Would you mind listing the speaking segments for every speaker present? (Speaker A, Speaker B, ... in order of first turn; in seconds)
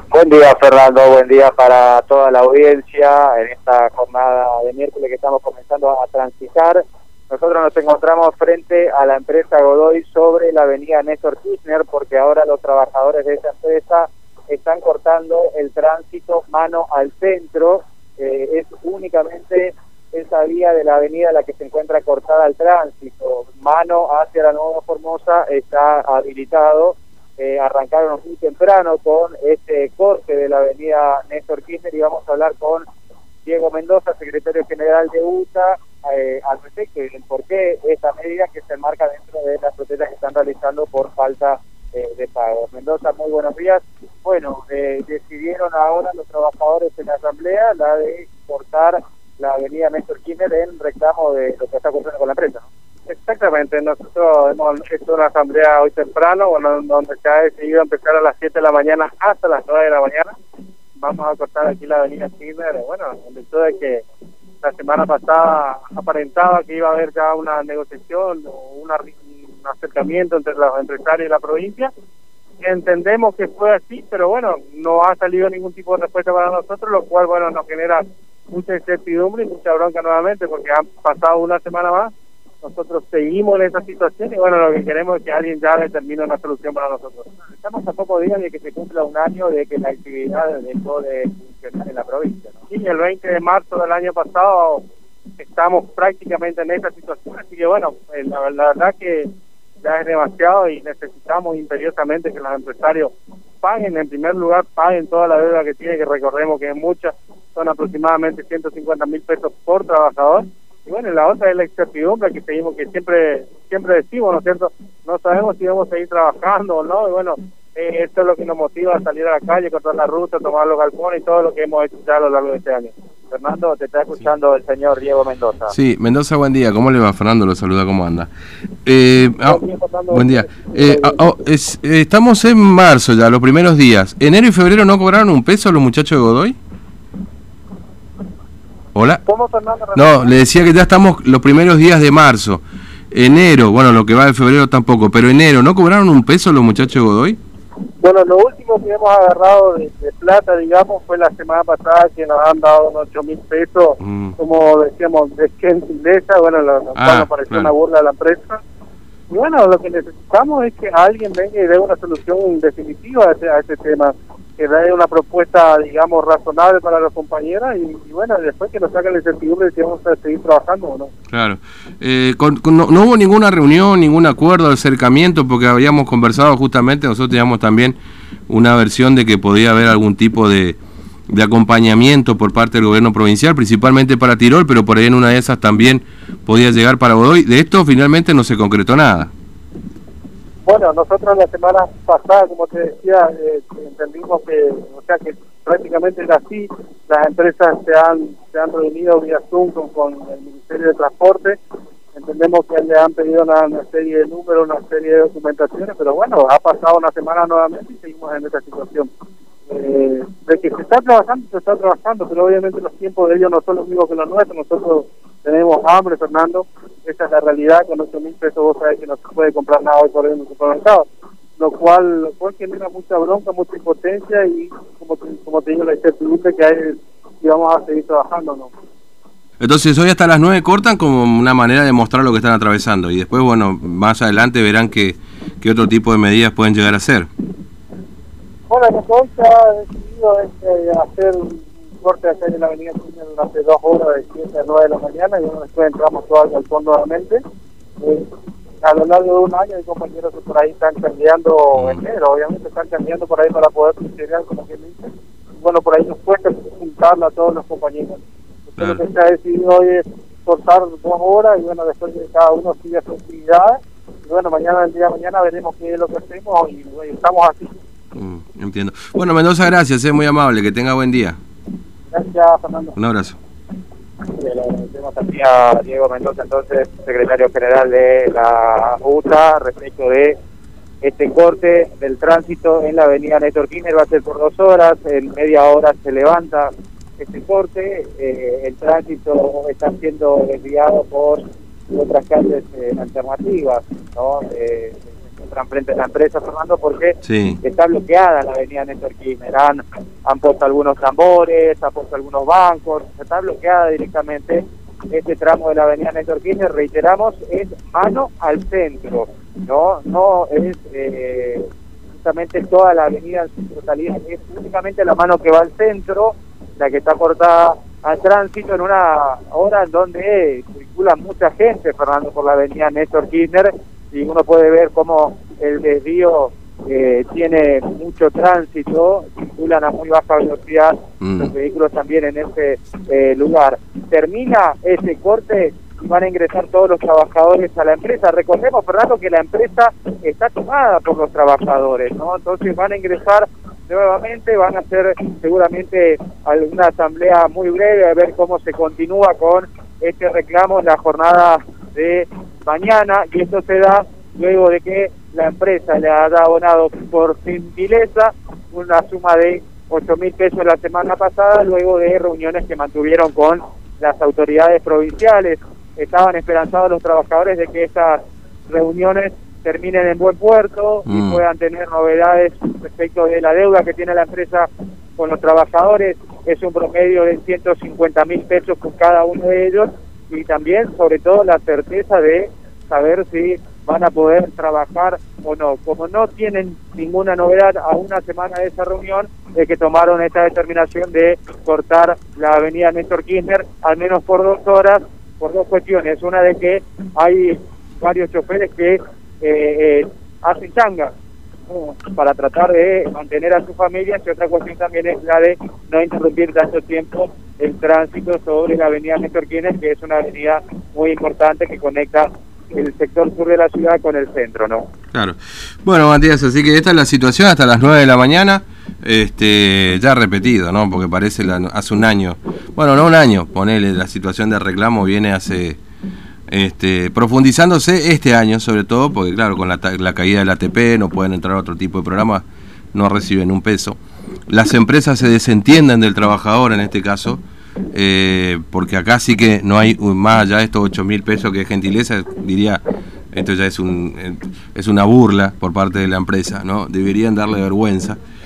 Speaker A: 0.1-32.9, 33.5-52.7, 87.6-92.6, 123.3-125.7, 274.4-280.4, 281.0-401.1, 401.7-414.9
Speaker B: 53.1-60.4, 61.0-64.0, 64.6-71.9, 72.6-82.1, 82.6-87.3, 92.7-94.8, 95.4-99.3, 99.8-122.9, 129.4-131.2, 139.3-140.4, 148.0-158.6, 159.3-171.1, 190.7-201.6, 202.2-209.1, 209.7-221.1, 221.6-228.7, 238.7-247.4, 248.0-248.3, 248.8-267.7, 272.1-272.9
Speaker C: 125.7-128.3, 128.8-136.6, 138.9-139.2, 139.9-147.4, 154.0-154.4, 157.0-157.7, 171.3-178.0, 178.5-180.8, 181.3-189.3, 229.6-237.3, 251.7-252.0, 268.1-271.4, 273.0-273.4, 297.2-297.6, 331.2-331.5, 371.1-371.4, 415.1-425.8, 426.5-434.0, 434.5-442.8, 443.3-448.2